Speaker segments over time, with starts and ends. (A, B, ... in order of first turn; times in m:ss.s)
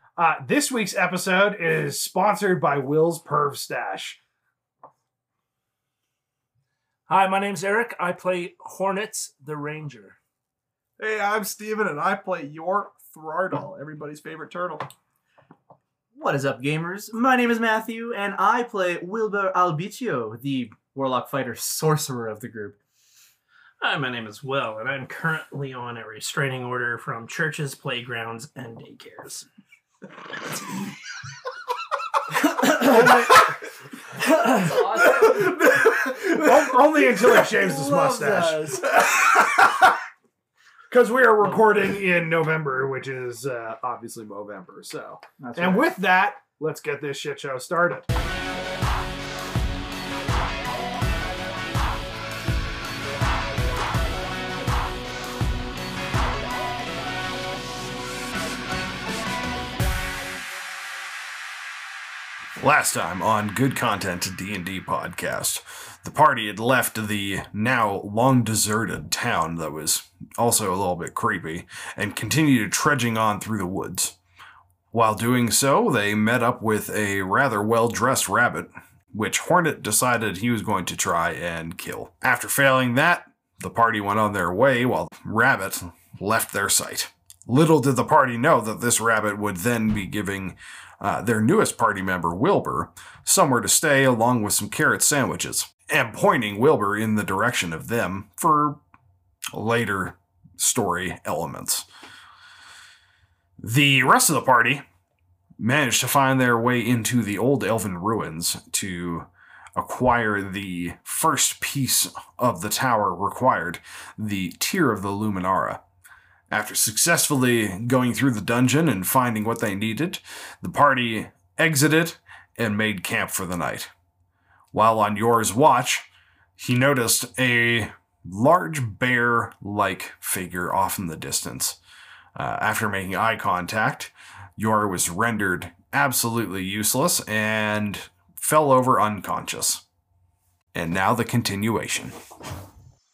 0:00.2-0:04.2 A
0:07.1-0:10.2 B
0:11.0-0:14.9 C
0:16.1-0:22.8 D
0:23.8-0:29.5 E
0:32.6-0:33.3 D
0:32.8-0:33.4 A
0:34.4-0:35.4 D
0:34.9-0:36.6 C
0:36.3-0:38.8 A
0:37.1-0:37.5 C
0:37.6-0:38.8 D
0:38.9-0:39.2 C
0:40.9-0:48.1 A
0:45.4-0:45.9 D
1:02.6-1:14.2 F
1:14.9-1:38.8 F
1:39.5-1:41.9 F
1:43.6-1:44.8 F
1:45.6-1:55.8 F
1:56.5-2:03.9 F
2:04.7-2:11.8 F
2:12.4-2:19.8 F
2:20.7-2:22.2 F